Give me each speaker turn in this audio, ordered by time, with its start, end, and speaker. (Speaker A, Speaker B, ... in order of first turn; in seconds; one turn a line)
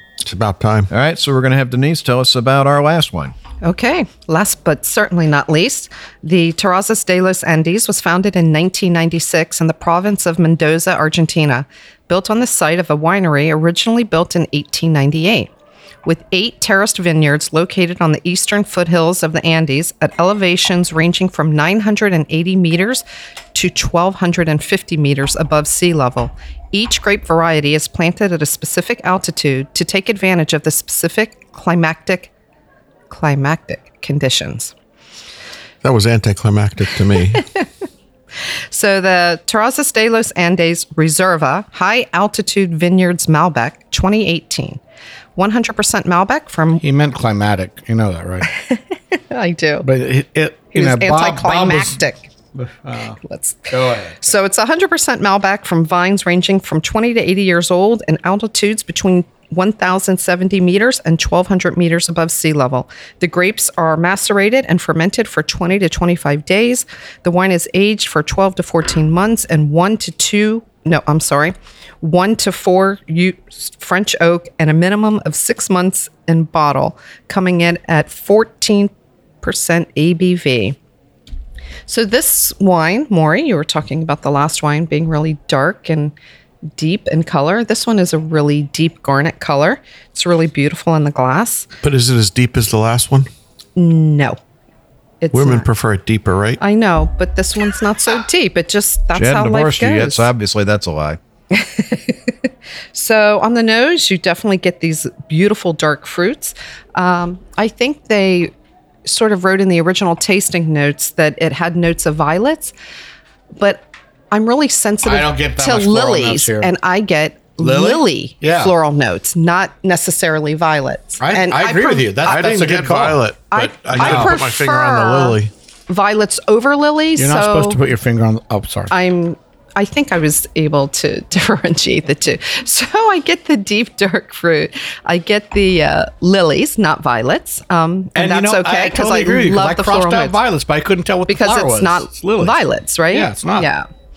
Speaker A: 0.2-0.9
Speaker B: 0.9-3.4
Speaker C: 3.6-15.5
Speaker C: 16.1-32.3
Speaker C: 33.1-34.7
Speaker A: 35.8-37.5
Speaker C: 38.7-44.8
Speaker C: 45.4-46.8
Speaker D: 46.8-48.5
Speaker C: 48.6-49.9
Speaker D: 49.8-52.0
Speaker C: 50.7-52.2
Speaker D: 52.5-54.3
Speaker C: 53.2-78.9
Speaker C: 79.4-80.8
Speaker C: 81.9-86.1
Speaker C: 86.8-91.7
Speaker A: 91.8-93.3
Speaker C: 93.8-94.4
Speaker C: 95.2-95.7
Speaker A: 95.3-96.6
Speaker C: 96.6-100.3
Speaker B: 99.1-101.2
Speaker C: 101.5-108.5
Speaker C: 109.0-112.7
Speaker C: 113.6-122.5
Speaker D: 115.0-116.7
Speaker D: 117.6-118.7
Speaker D: 121.2-123.3
Speaker A: 122.2-125.5
Speaker C: 123.5-125.4
Speaker D: 124.0-124.4
Speaker C: 125.9-127.8
Speaker D: 127.2-128.9
Speaker C: 128.9-140.4
Speaker D: 138.2-143.7
Speaker C: 141.3-143.9